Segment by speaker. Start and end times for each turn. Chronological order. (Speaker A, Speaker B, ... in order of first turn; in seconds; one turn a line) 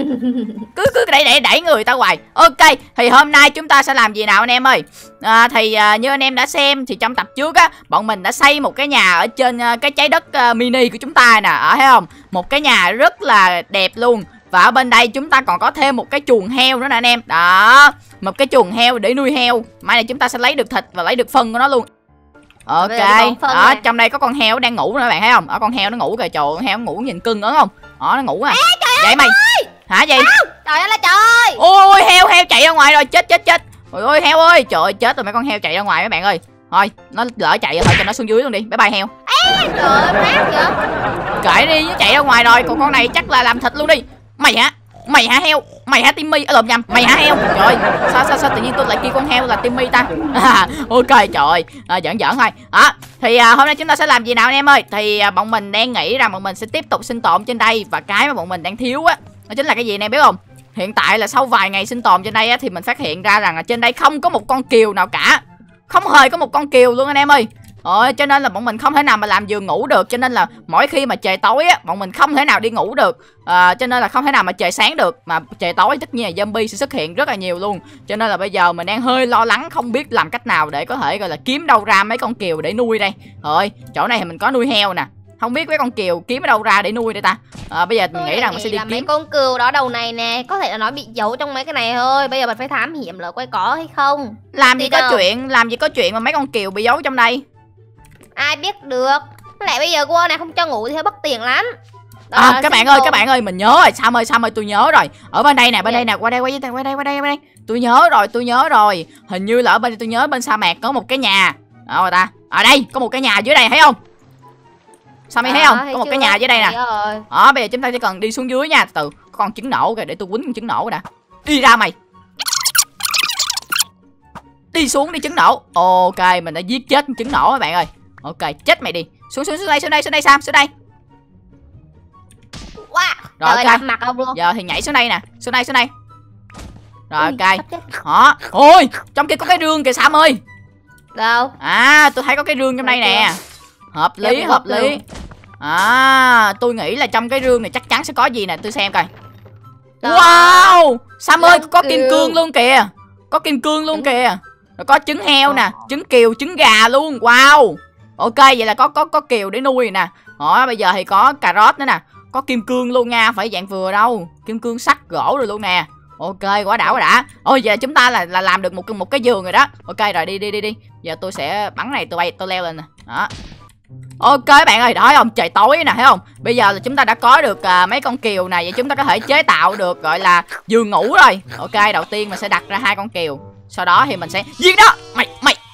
Speaker A: 0.1-0.5
Speaker B: 0.7-21.9
Speaker B: 22.7-29.3
Speaker A: 22.8-23.8
Speaker A: 28.5-31.6
Speaker B: 29.9-30.3
Speaker B: 31.6-39.1
Speaker A: 39.3-40.8
Speaker B: 41.4-89.1
Speaker A: 88.1-95.2
Speaker B: 94.5-97.4
Speaker A: 98.3-101.7
Speaker A: 102.3-103.2
Speaker B: 102.3-114.0
Speaker B: 115.3-116.7
Speaker A: 115.4-117.2
Speaker B: 117.3-121.9
Speaker B: 124.7-130.7
Speaker A: 132.8-134.4
Speaker B: 133.4-133.8
Speaker B: 134.3-135.9
Speaker B: 137.1-140.4
Speaker A: 137.2-137.9
Speaker A: 141.1-141.5
Speaker B: 141.6-143.4
Speaker A: 142.8-143.3
Speaker B: 143.9-145.0
Speaker A: 144.2-145.0
Speaker B: 145.6-149.1
Speaker A: 150.0-150.7
Speaker B: 150.0-173.3
Speaker A: 151.4-152.4
Speaker B: 174.2-185.6